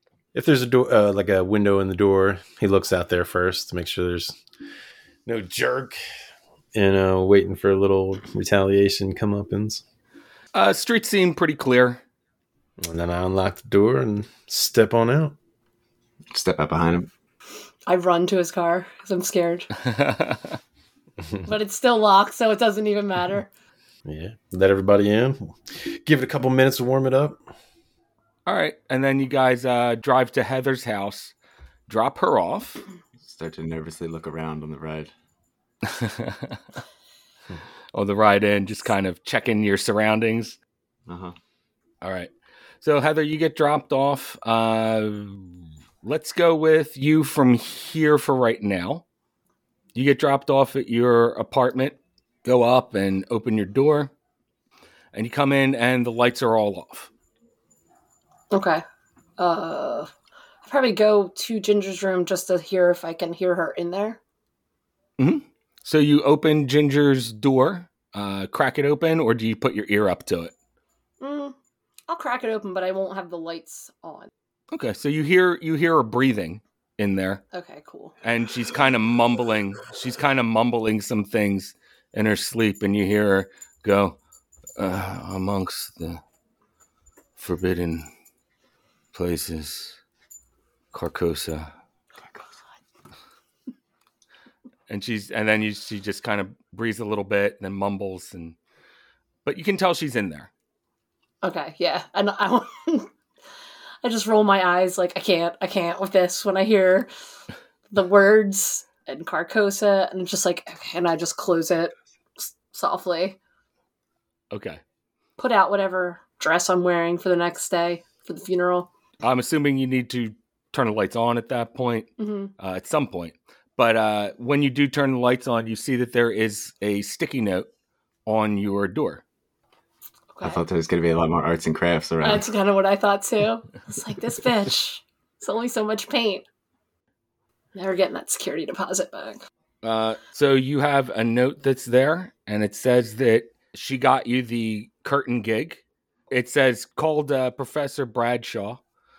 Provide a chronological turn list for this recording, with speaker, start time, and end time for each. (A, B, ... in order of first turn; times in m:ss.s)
0:00.3-0:04.4 A
0:05.2-0:06.0 A
0:06.7-0:09.8 A
0:10.5-0:12.0 B
0:12.8-0:15.3 A
0:16.3-0:17.1 C
0:17.9-0:19.7 D
0:19.8-0:20.6 B
0:21.4-0:23.5 D
0:24.0-0:27.4 A
0:28.4-0:31.3 B
0:31.9-0:32.8 B
0:33.2-0:35.1 C
0:35.8-0:36.6 B
0:37.9-0:40.6 B
0:41.1-0:41.3 C
0:42.0-0:49.0 B
0:49.9-0:54.1 B
0:55.1-0:57.1 B
0:58.5-0:58.8 D
0:59.4-1:00.1 D
1:00.6-1:04.2 D
1:05.2-1:10.5 B
1:11.2-1:11.5 D
1:12.1-1:14.3 D
1:14.7-1:17.4 B
1:17.5-1:18.1 D
1:18.2-1:24.2 B
1:24.8-1:26.2 B
1:27.4-1:28.1 B
1:29.1-1:30.0 B
1:30.9-1:31.7 B
1:34.9-1:38.6 B
1:39.4-1:40.5 B
1:41.4-1:43.1 D
1:44.0-1:47.1 D
1:47.9-1:53.4 D
1:54.5-1:54.8 B
1:55.4-1:58.9 D
1:59.2-2:07.7 B
2:02.2-2:02.5 D
2:08.2-2:09.2 B
2:10.3-2:10.6 D
2:10.4-2:12.4 C
2:12.2-2:16.4 D
2:17.7-2:19.4 D
2:19.8-2:28.8 B